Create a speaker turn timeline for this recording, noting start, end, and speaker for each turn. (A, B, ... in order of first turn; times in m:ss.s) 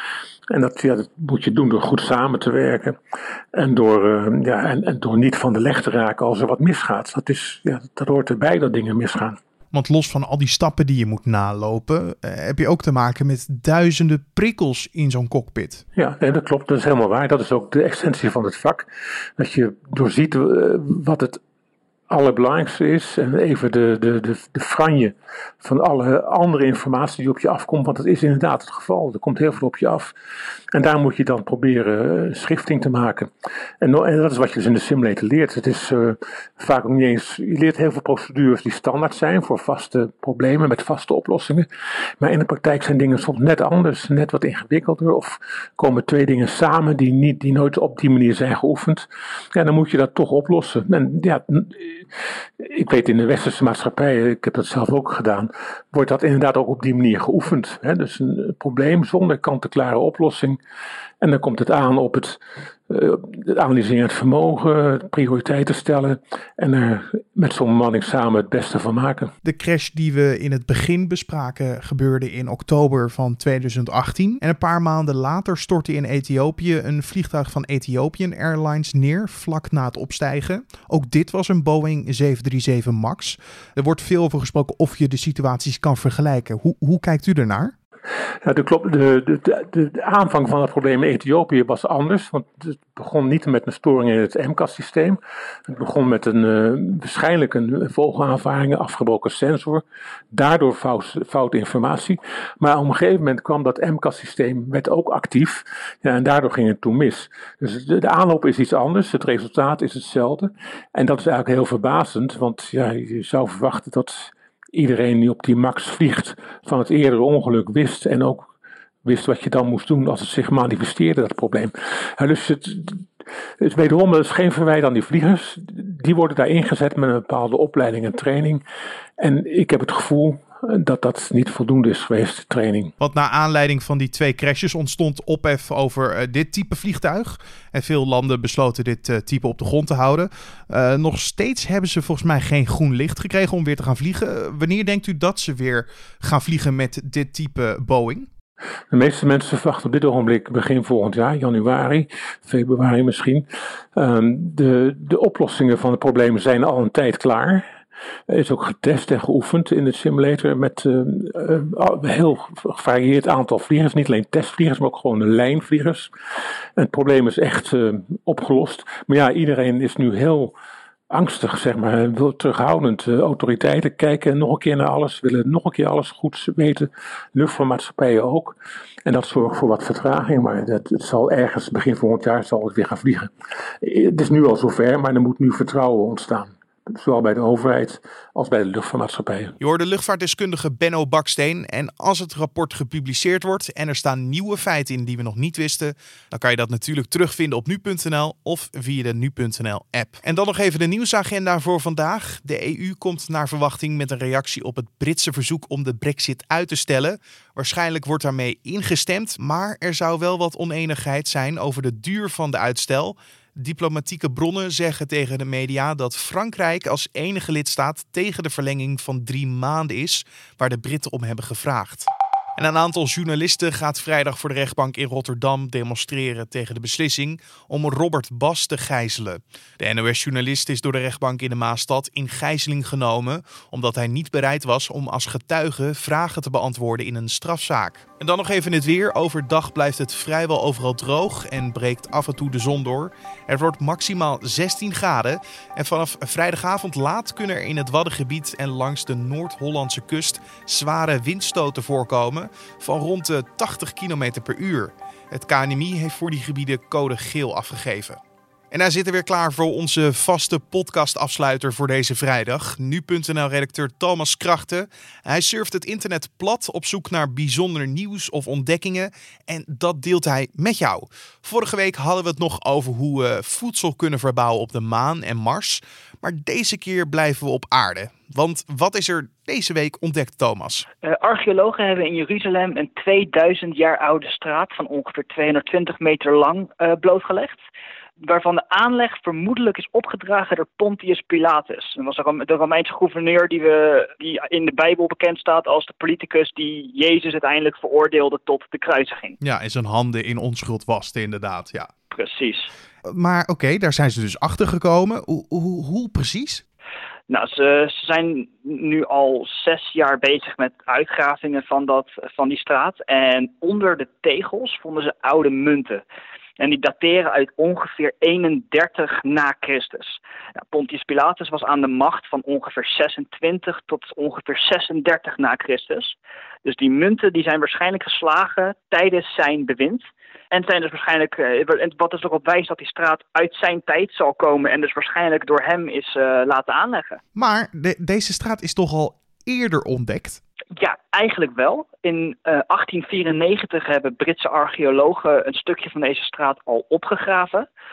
0:00.5-0:03.0 A
0:03.5-0:09.4 A
0:09.7-0:15.8 B
0:16.0-0:21.4 A
0:22.1-0:30.1 A
0:30.7-0:33.3 A
0:33.8-0:41.7 A
0:42.2-0:52.0 A
0:52.6-1:00.6 A
1:01.2-1:09.3 A
1:09.4-1:27.7 B
1:28.4-1:58.4 A
1:59.0-2:03.0 A
2:03.6-2:08.6 A
2:09.2-2:12.9 A
2:13.0-2:28.3 B
2:28.9-2:37.6 A
2:38.3-2:46.1 A
2:46.8-2:50.5 A
2:51.1-3:09.6 A
3:09.6-4:18.2 B
4:18.7-4:40.8 B
4:41.0-4:47.6 C
4:48.2-4:59.4 C
4:59.4-5:01.9 B
5:02.1-5:02.7 C
5:03.0-5:06.6 B
5:07.3-5:16.0 C
5:16.6-5:37.2 C
5:37.4-5:40.4 B
5:40.8-5:47.7 C